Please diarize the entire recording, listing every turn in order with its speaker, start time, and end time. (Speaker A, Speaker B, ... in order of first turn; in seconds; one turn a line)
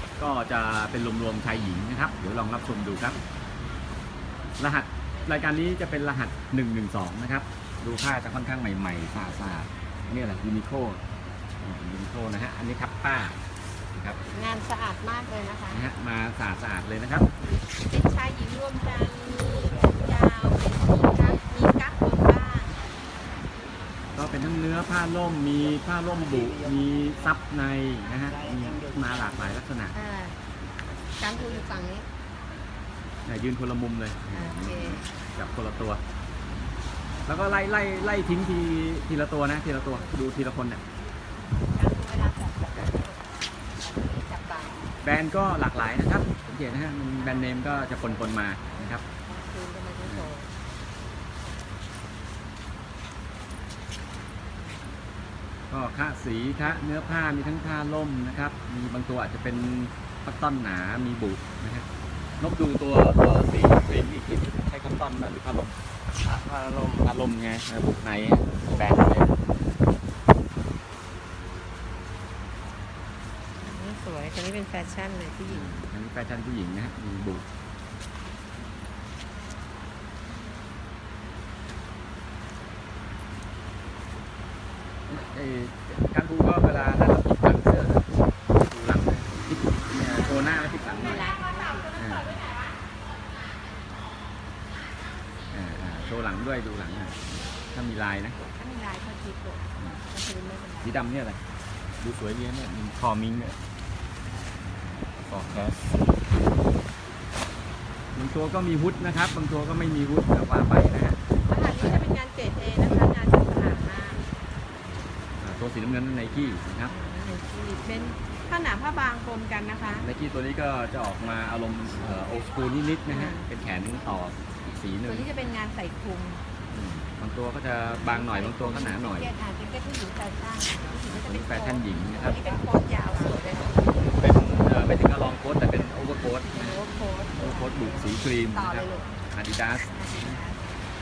Speaker A: 0.2-3.2
Speaker A: 4.6-11.0
Speaker A: 11.6-13.4
Speaker B: 14.3-15.8
Speaker A: 15.7-17.3
Speaker B: 17.8-22.8
Speaker A: 24.1-29.9
Speaker B: 29.9-30.4
Speaker B: 31.2-32.1
Speaker A: 33.3-36.0
Speaker B: 34.3-35.1
Speaker A: 37.3-40.8
Speaker B: 41.7-43.2
Speaker B: 43.8-44.8
Speaker A: 45.0-49.0
Speaker B: 47.2-50.5
Speaker A: 55.7-61.9
Speaker B: 56.6-56.9
Speaker A: 62.4-69.3
Speaker B: 68.7-69.3
Speaker B: 73.6-75.7
Speaker A: 75.5-77.4
Speaker A: 85.1-88.1
Speaker A: 88.6-91.3
Speaker B: 90.1-92.7
Speaker A: 92.0-92.4
Speaker A: 95.5-98.4
Speaker B: 98.5-101.0
Speaker A: 100.8-101.4
Speaker A: 102.0-103.6
Speaker A: 105.2-106.0
Speaker A: 108.2-112.0
Speaker B: 111.5-114.2
Speaker A: 115.4-116.9
Speaker B: 116.9-120.1
Speaker A: 120.0-125.3
Speaker B: 123.1-123.5
Speaker B: 125.0-126.4
Speaker A: 126.7-129.3
Speaker B: 128.0-134.2
Speaker A: 131.1-132.4
Speaker A: 134.1-136.8
Speaker B: 136.5-139.2
Speaker A: 137.4-140.4
Speaker B: 139.9-140.8